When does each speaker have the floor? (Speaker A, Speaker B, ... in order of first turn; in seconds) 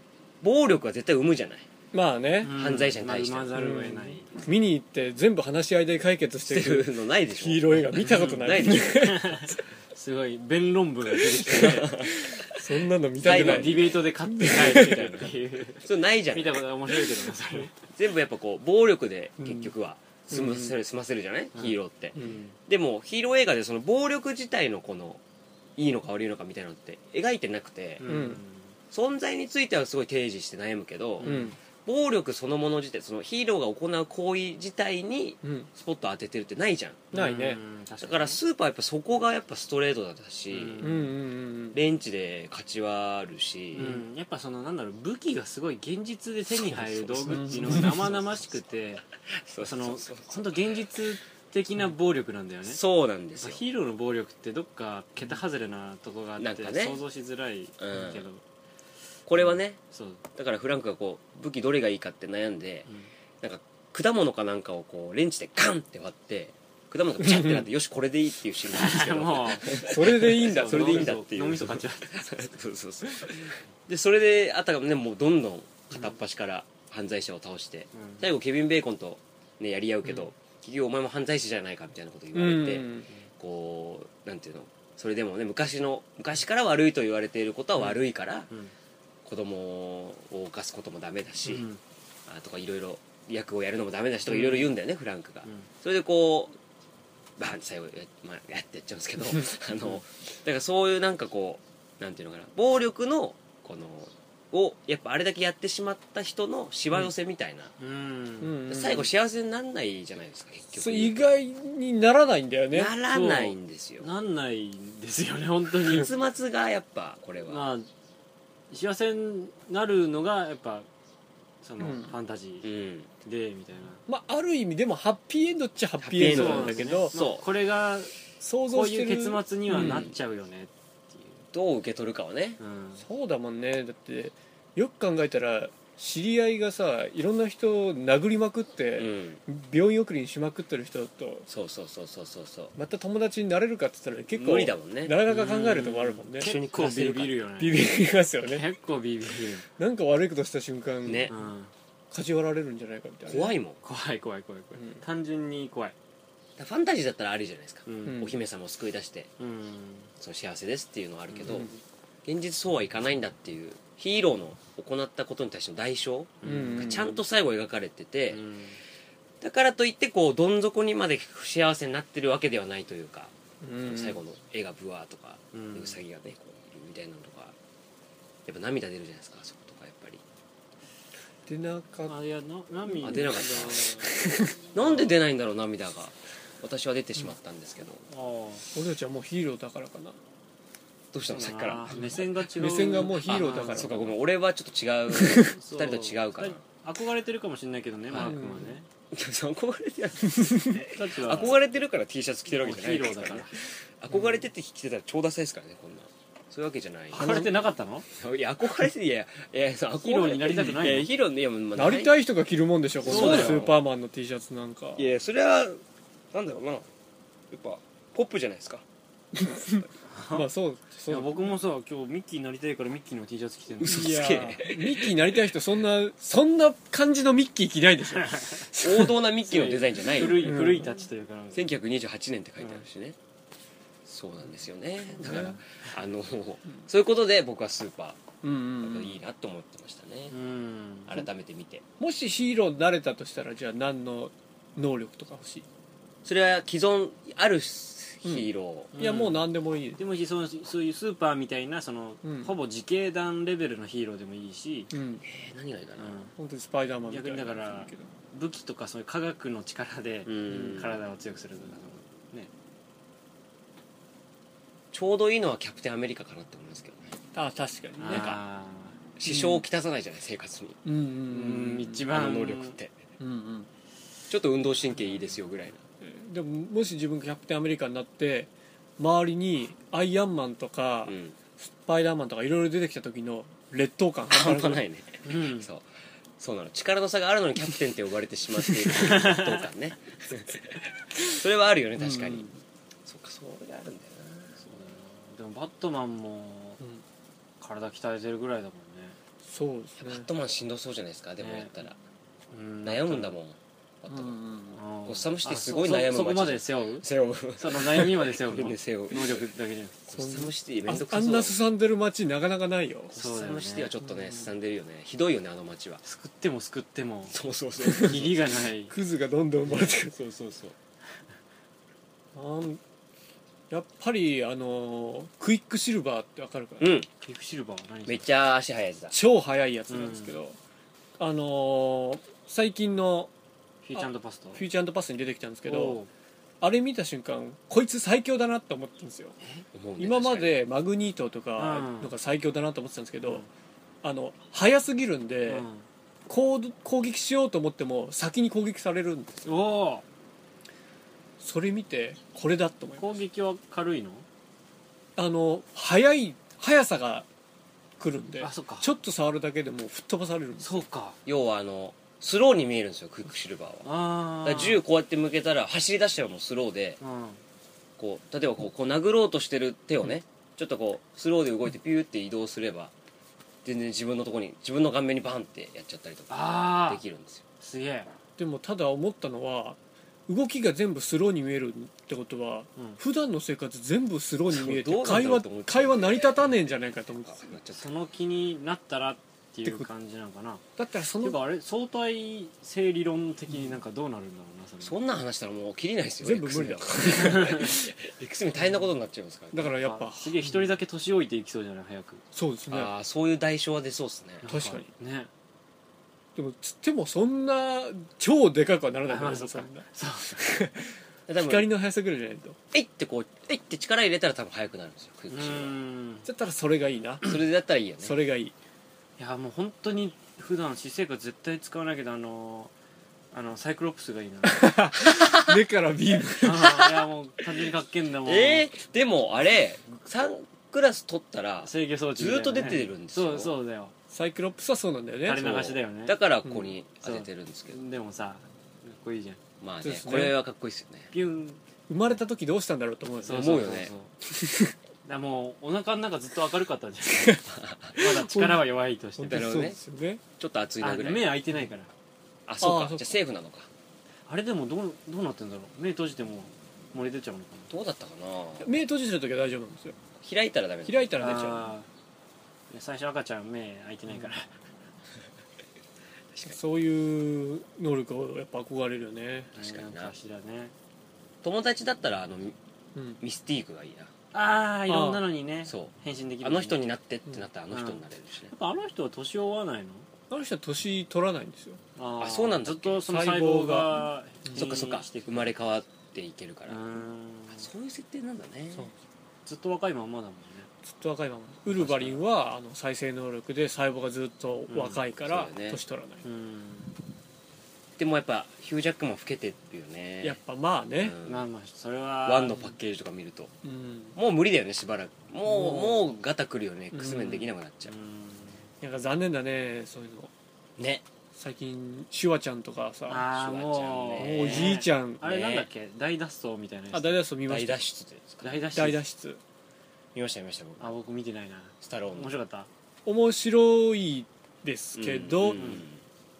Speaker A: 0.4-1.7, 2.5-3.6, 6.5-9.2, 11.5-12.6, 13.2-16.6, 17.9-25.2, 25.8-28.1, 28.9-37.1, 38.0-40.9, 41.7-44.0, 46.5-48.6, 49.4-51.0, 52.6-53.6, 56.4-57.0, 57.8-58.3, 59.3-59.8, 60.4-62.9, 63.4-88.5, 89.2-91.7, 92.3-96.6, 97.4-107.7, 108.7-111.3, 112.7-114.1, 115.9-117.7, 122.6-123.1, 126.0-127.5, 129.7-130.1, 131.5-132.6, 139.0-139.4, 141.5-142.8, 144.3-145.2, 146.4-147.4, 151.1-151.3, 153.3-153.8, 156.6-159.3, 160.2-161.7, 162.2-168.4, 169.4-177.5, 178.5-180.2, 183.0-184.0, 184.7-188.1, 191.1-192.2, 192.8-196.6, 198.1-198.4, 199.1-207.5, 208.1-212.1, 213.0-213.8, 215.0-215.8, 216.3-216.9, 217.5-218.8, 223.8-225.4, 228.8-230.6, 231.5-233.2, 234.1-240.3, 241.1-241.8, 246.2-248.9, 255.2-256.2, 260.3-261.0, 264.9-267.2, 268.0-268.4, 269.2-270.8, 272.1-272.9, 274.3-275.8, 281.1-281.4, 284.3-285.9, 286.4-292.5, 293.1-294.6, 300.0-302.0, 302.8-304.4, 305.1-309.5, 310.1-311.6, 313.1-316.0, 317.3-318.5, 319.7-320.8, 326.8-327.1, 328.1-329.1, 339.7-340.6, 361.3-363.9, 364.4-367.0, 368.0-372.9, 373.6-377.4, 384.5-386.6, 387.2-387.9, 394.8-399.7, 402.7-404.5, 411.3-411.7, 412.7-415.8, 417.2-418.2, 425.1-425.6, 426.6-426.9, 428.2-433.6, 435.4-437.8, 439.6-441.1, 443.3-443.9, 447.5-448.0, 449.3-449.8, 450.4-451.4, 452.5-453.7, 457.7-458.7, 460.2-461.4, 469.6-470.1, 471.4-472.6, 473.2-474.1, 475.7-478.5, 482.2-483.0, 484.5-486.9, 487.5-488.9, 491.8-492.2, 495.2-495.8, 498.0-500.4, 501.0-501.5, 502.2-503.5, 504.1-507.9, 510.8-511.0, 513.3-515.7, 517.5-518.7, 520.1-521.0, 521.8-522.3, 525.0-526.0
Speaker B: 1.9-2.5, 3.5-9.6, 11.4-15.0, 19.4-19.7, 20.3-20.8, 22.2-22.4, 28.1-28.4, 31.2-31.6, 35.4-35.7, 37.1-37.6, 40.8-41.8, 47.3-47.9, 67.2-67.7, 69.7-71.2, 82.3-83.1, 108.4-109.1, 110.8-112.9, 121.8-122.2, 124.1-127.1, 128.4-130.1, 133.0-141.5, 142.8-146.6, 147.6-148.7, 149.8-151.3, 152.1-153.6, 154.8-155.0, 158.1-158.3, 161.5-161.8, 166.4-167.2, 173.6-174.2, 181.5-182.2, 182.9-184.6, 188.7-190.2, 191.9-194.1, 195.1-195.6, 198.2-198.8, 200.3-201.4, 207.1-207.7, 211.8-215.1, 219.3-221.5, 223.8-229.2, 230.2-231.0, 235.2-235.6, 238.4-239.2, 242.0-245.7, 248.2-250.0, 252.2-252.5, 254.9-255.2, 256.4-258.1, 267.3-268.4, 269.2-269.6, 270.9-272.1, 273.2-273.7, 276.0-284.8, 292.0-292.6, 299.4-300.3, 304.1-304.8, 310.1-313.1, 314.0-314.5, 317.8-318.2, 318.9-320.1, 322.4-322.8, 323.7-326.9, 329.1-330.6, 331.2-333.3, 333.9-336.0, 336.6-339.4, 340.0-343.4, 344.0-345.7, 346.3-349.5, 351.4-353.1, 355.2-357.3, 358.0-360.8, 378.4-387.6, 390.8-391.4, 396.2-397.9, 399.5-400.7, 402.3-402.9, 404.5-404.9, 406.4-412.6, 416.2-417.4, 418.0-418.6, 424.5-426.8, 434.1-435.6, 439.8-440.4, 441.9-443.6, 444.3-444.7, 447.2-447.4, 448.0-448.6, 449.2-450.2, 452.6-453.1, 458.6-460.0, 460.9-461.7, 466.5-469.5, 472.9-473.2, 474.9-475.2, 480.3-481.8, 483.1-484.7, 490.8-496.2, 500.2-501.1, 503.6-504.2, 505.5-506.0, 506.9-507.4, 508.8-510.3, 511.4-513.3, 514.2-515.2, 516.9-517.8, 518.7-519.4, 523.1-525.8
Speaker C: 2.4-4.4, 8.0-11.9, 13.2-17.8, 21.6-22.5, 28.0-28.7, 31.2-31.6, 37.1-38.4, 40.5-41.1, 43.7-49.0, 49.6-52.8, 53.4-58.4, 59.4-60.2, 62.9-63.1, 68.7-72.3, 77.9-78.2, 91.5-91.8, 94.3-94.8, 95.4-95.7, 107.8-108.6, 113.1-116.1, 117.5-117.9, 118.7-120.9, 121.6-122.7, 123.2-124.0, 126.1-128.2, 128.7-131.4, 132.6-133.0, 145.3-147.8, 148.5-149.7, 151.3-151.7, 153.8-155.9, 157.9-158.3, 159.4-160.1, 161.3-161.7, 166.4-167.0, 168.3-168.8, 175.5-176.0, 182.1-184.2, 184.8-185.2, 188.1-188.7, 191.3-193.9, 195.5-198.9, 200.8-201.6, 202.5-203.6, 207.1-208.1, 210.0-211.1, 213.1-213.7, 220.1-220.5, 221.1-224.3, 228.2-228.6, 229.5-231.7, 235.3-235.6, 240.3-241.2, 248.9-249.4, 250.0-254.9, 256.0-256.3, 257.1-262.5, 268.0-269.0, 271.3-272.8, 285.2-285.7, 289.0-289.6, 294.6-296.8, 297.6-299.2, 301.4-301.8, 302.5-303.4, 304.7-307.1, 307.6-310.0, 313.1-313.9, 316.0-317.4, 318.0-318.9, 327.2-328.3, 329.9-330.4, 333.8-334.6, 335.7-336.1, 341.6-342.1, 343.2-343.5, 345.5-345.9, 349.4-350.1, 353.0-354.3, 358.4-358.9, 360.6-361.2, 363.8-364.8, 367.0-367.4, 376.3-377.0, 377.6-378.1, 387.8-390.6, 391.2-395.0, 397.1-397.7, 399.7-402.2, 404.4-405.3, 409.1-410.4, 415.3-416.3, 419.2-422.7, 423.3-424.7, 426.4-428.7, 431.6-433.9, 435.2-436.2, 437.0-439.4, 441.1-441.6, 443.2-444.1, 445.1-447.4, 447.9-449.6, 450.8-451.9, 454.3-457.7, 461.2-461.9, 462.7-464.5, 469.6-470.7, 474.3-476.8, 477.7-480.1, 482.0-485.5, 486.7-487.7, 489.5-490.7, 494.7-495.0, 496.2-496.9, 501.2-502.8, 507.9-508.7, 513.1-517.2, 518.4-519.0, 520.8-522.7, 525.6-525.9